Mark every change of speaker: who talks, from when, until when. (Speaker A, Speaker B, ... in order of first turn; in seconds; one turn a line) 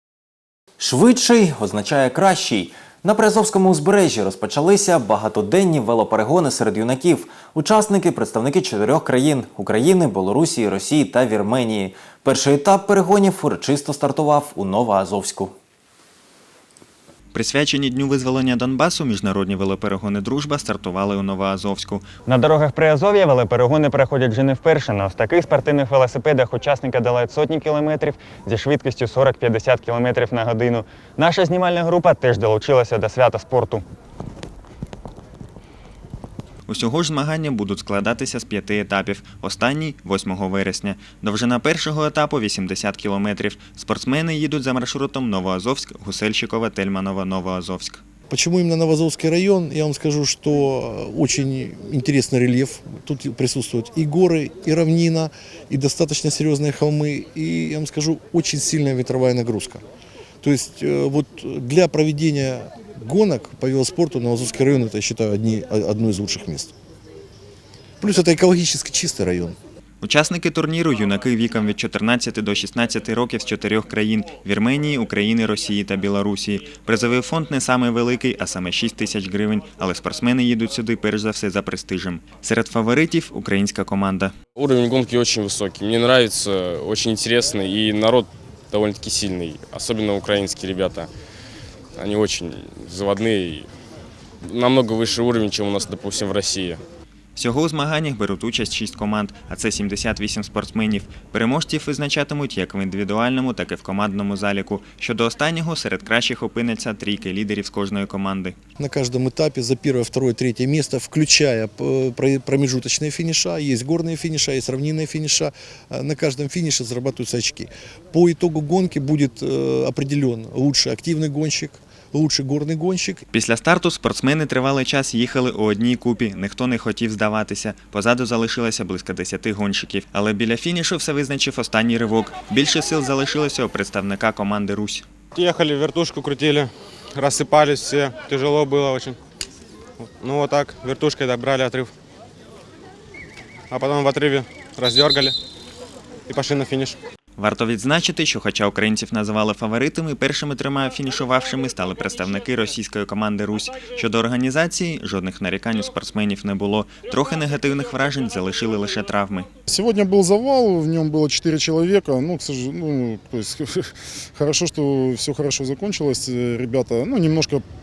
Speaker A: 0.8-15.5
Speaker B: 17.3-22.1
Speaker C: 22.3-33.8
Speaker B: 36.7-48.0
Speaker D: 48.3-59.8
Speaker D: 60.4-66.7
Speaker D: 68.0-69.6
Speaker B: 70.0-84.4
Speaker E: 84.5-91.1
Speaker E: 91.9-93.7
Speaker E: 94.4-96.8
Speaker B: 97.4-108.5
Speaker D: 108.8-123.2
Speaker B: 123.3-135.1
Speaker F: 135.3-139.2
Speaker F: 140.2-141.9
Speaker F: 143.7-145.3
Speaker F: 146.3-146.9
Speaker B: 147.4-159.5
Speaker G: 159.7-163.9
Speaker G: 164.4-167.6